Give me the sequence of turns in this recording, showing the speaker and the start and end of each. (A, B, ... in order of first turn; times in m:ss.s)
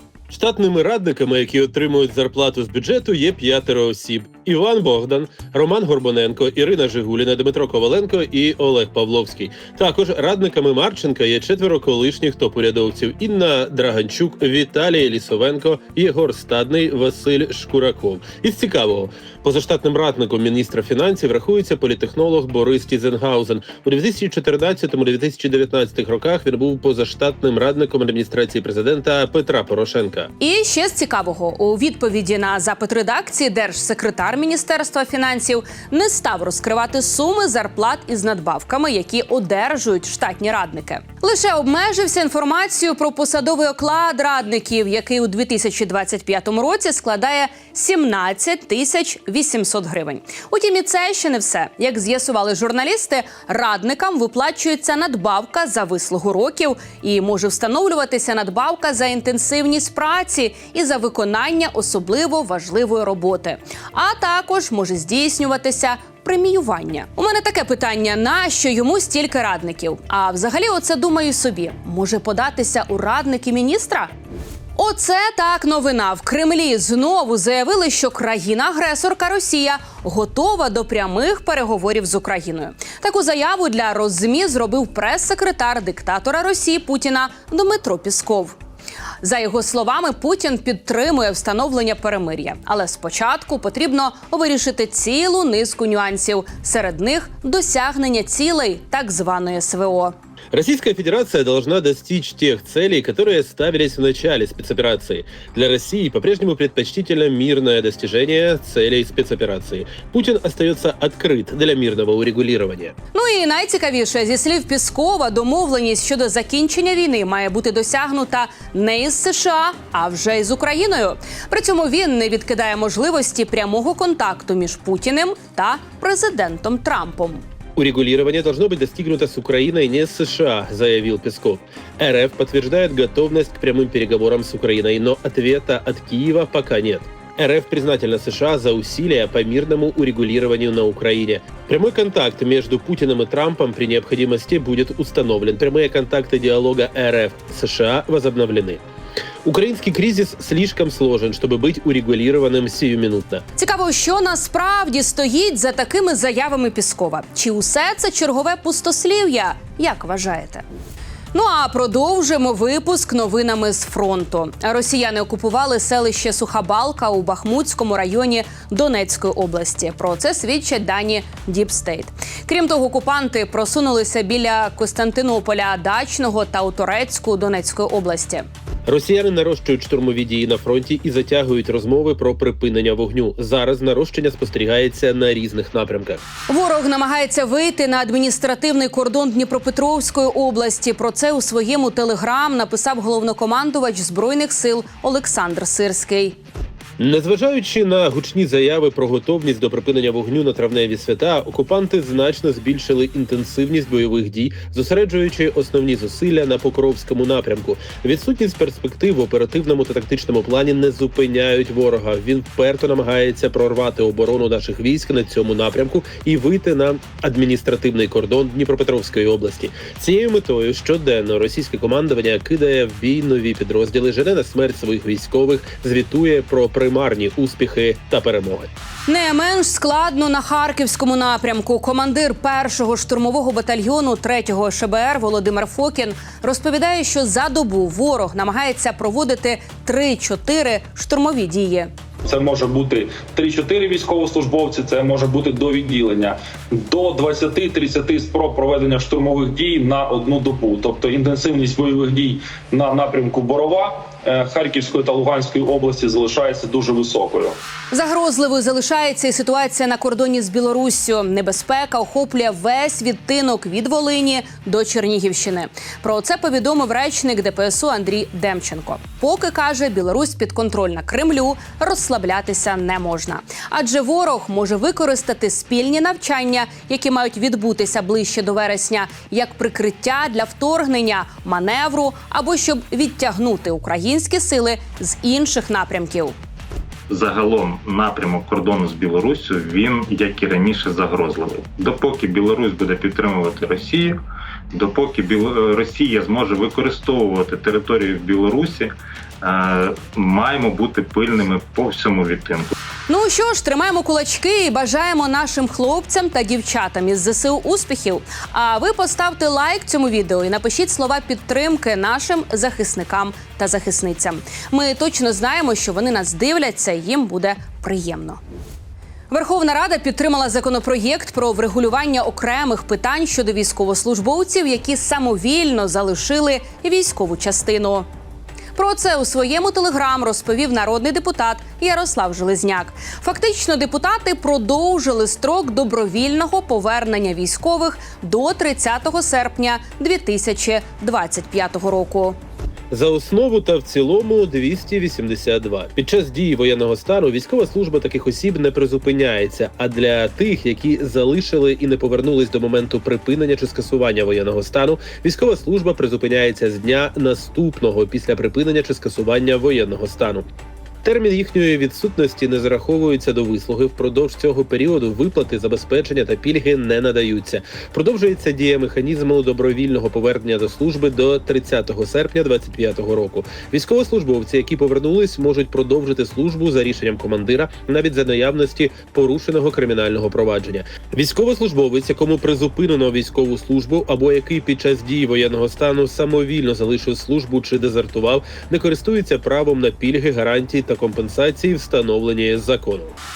0:00.3-0:30.3 A
0:30.4-1:14.1 B
1:14.8-1:28.6 B
1:29.2-1:40.1 B
1:40.5-1:52.9 A
1:53.1-2:07.4 B
2:07.8-2:28.8 A
2:29.4-2:33.4 A
2:33.6-2:40.6 B
2:41.3-2:58.4 B
2:58.9-3:06.2 A
3:06.5-3:16.4 B
3:17.0-3:48.7 A
3:49.1-4:01.9 B
4:02.3-4:17.6 C
4:17.9-4:46.4 B
4:47.1-4:54.2 D
4:54.7-5:02.7 D
5:03.1-5:18.4 B
5:19.3-5:28.1 B
5:28.8-5:42.4 B
5:42.9-6:00.4 A
6:01.0-6:33.2 A